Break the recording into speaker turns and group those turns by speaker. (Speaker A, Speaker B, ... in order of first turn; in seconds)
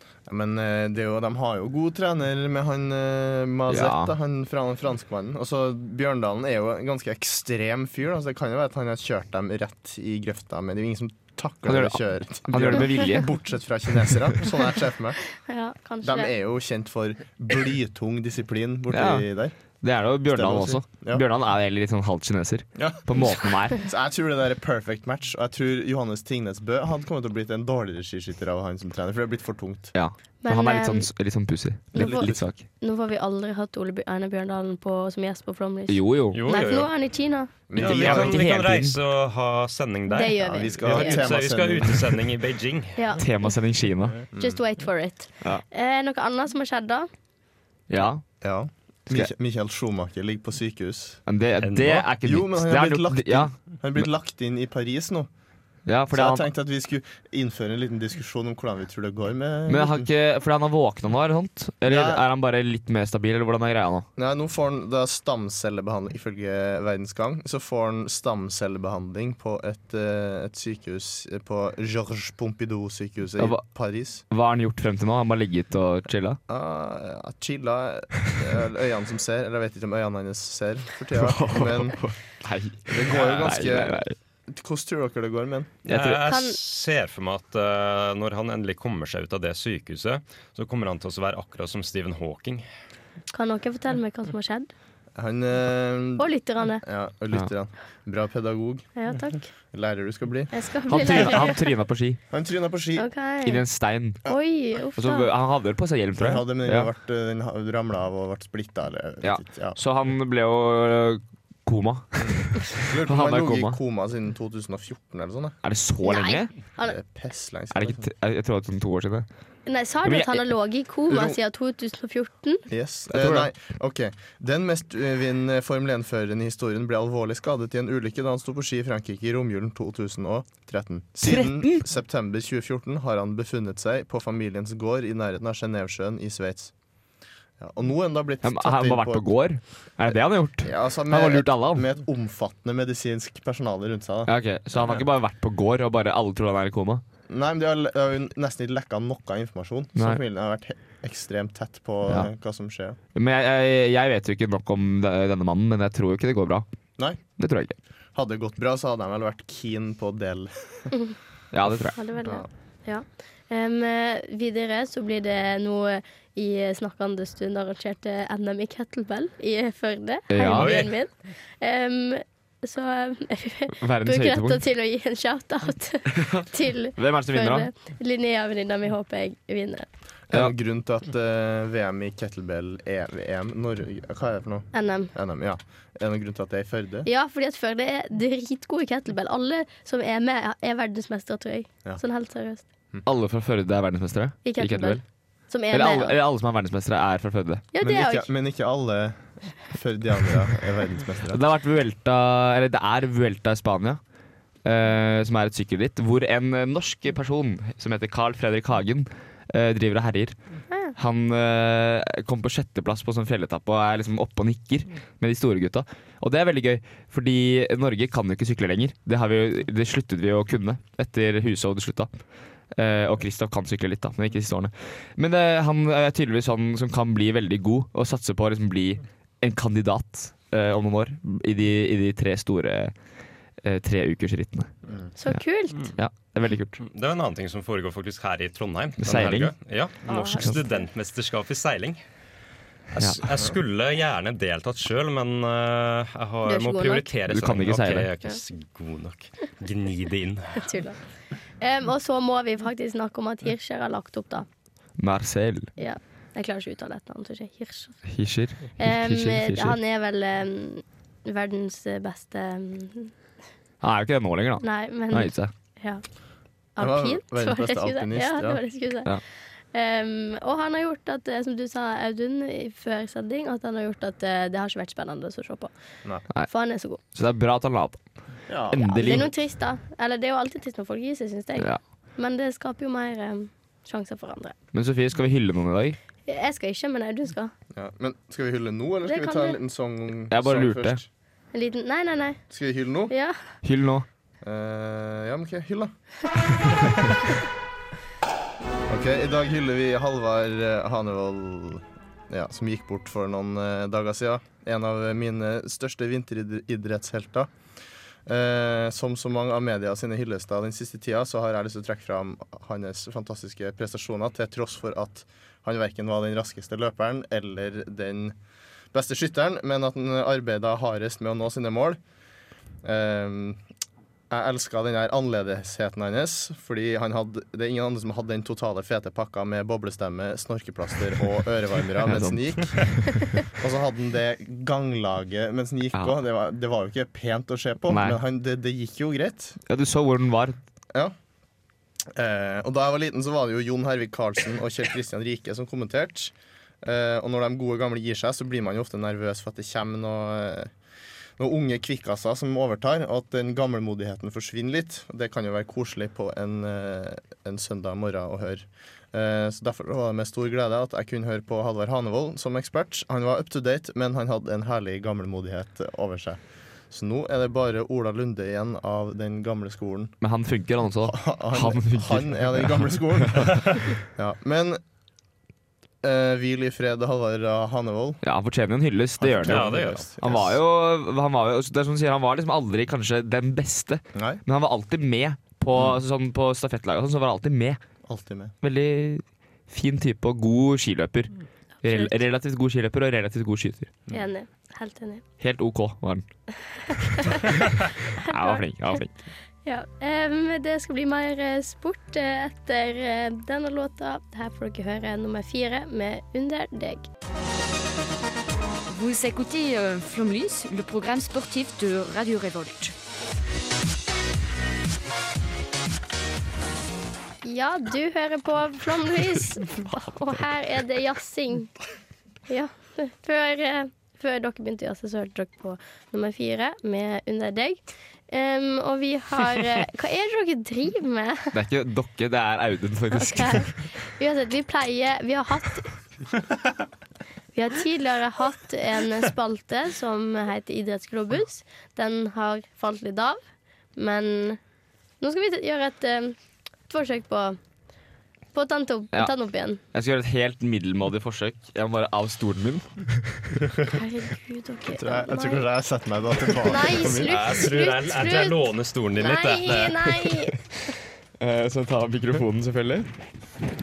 Speaker A: 0.3-15.2, 16.0-19.5, 20.2-21.2, 22.8-29.9, 31.9-32.5, 37.7-38.5, 40.4-42.3, 44.3-44.6, 48.4-51.2, 52.2-55.3, 56.1-60.1, 61.9-62.2, 64.2-74.2, 76.5-82.0, 82.9-85.7, 95.2-96.3, 96.8-98.9, 99.7-100.5, 102.3-103.1, 106.2-109.8, 112.1-115.6, 116.8-118.1, 121.1-121.4, 122.7-136.7, 137.6-139.3, 140.1-145.0, 147.3-153.0, 158.1-160.9, 180.3-187.1, 197.8-201.4, 266.8-268.6, 278.5-279.3, 287.7-291.1, 292.5-293.1, 294.4-295.9, 298.9-307.5, 308.2-318.3, 318.9-322.0, 322.8-323.6, 324.3-339.6, 342.1-350.7, 351.4-370.1, 371.0-374.8, 376.0-378.2, 379.2-380.6, 384.1-384.4, 388.1-388.5, 454.9-457.4
Speaker B: 3.7-4.1, 11.7-13.3, 18.9-19.3, 19.8-23.8, 29.9-32.6, 35.9-36.4, 37.8-39.0, 43.2-44.2, 47.9-48.2, 51.3-54.1, 55.9-56.5, 59.7-64.0, 73.4-73.6, 74.3-76.4, 81.2-84.2, 85.8-86.2, 100.9-102.2, 103.4-104.3, 105.0-106.9, 109.2-113.8, 115.6-116.5, 117.7-119.2, 120.0-120.5, 123.1-123.5, 131.2-131.8, 138.4-141.9, 144.3-147.0, 153.1-156.6, 157.4-157.8, 161.5-162.0, 170.3-170.7, 173.8-174.6, 176.1-177.7, 193.0-195.0, 195.7-197.6, 201.3-204.0, 204.6-210.4, 210.9-222.1, 222.7-232.9, 233.6-234.7, 235.9-236.8, 239.0-239.5, 243.0-243.2, 247.3-248.1, 255.0-255.7, 258.1-259.8, 263.8-265.5, 277.1-278.0, 278.7-279.3, 284.7-286.0, 290.3-291.0, 293.6-294.0, 332.1-333.1, 337.9-338.2, 339.7-340.6, 370.2-373.4, 378.2-387.8, 388.6-393.9, 395.4-396.2, 398.2-399.1, 431.5-433.7, 449.9-453.5, 461.4-463.1
Speaker C: 15.4-16.3, 30.4-31.1, 31.9-37.5, 40.1-41.2, 43.0-43.5, 44.4-47.1, 86.2-86.6, 93.3-94.7, 96.2-96.8, 99.0-99.5, 100.5-101.7, 103.0-103.6, 104.2-105.3, 116.0-117.0, 119.7-122.7, 161.8-179.8, 184.7-185.1, 187.0-192.6, 194.4-196.2, 197.7-198.3, 235.2-235.9, 240.1-240.8, 246.4-247.1, 250.6-251.0, 251.6-254.4, 255.8-258.0, 258.8-263.1, 264.6-266.0, 266.8-269.2, 269.7-275.7, 276.5-277.0, 278.9-284.6, 286.2-287.5, 289.1-289.6, 291.5-292.4, 293.1-293.4, 391.8-392.2, 394.1-395.2, 397.1-397.7, 398.3-399.0, 399.6-407.1, 417.4-421.8, 422.5-431.5, 433.1-435.9, 437.5-443.4, 443.9-444.6, 445.2-446.4, 446.9-447.6, 448.5-449.8, 453.9-455.6, 456.6-460.6
Speaker D: 36.3-36.9, 37.8-43.0, 51.6-52.0, 85.9-92.6, 170.5-170.9, 236.8-242.0, 242.9-250.7, 379.5-380.0, 457.3-460.0
Speaker E: 408.9-412.9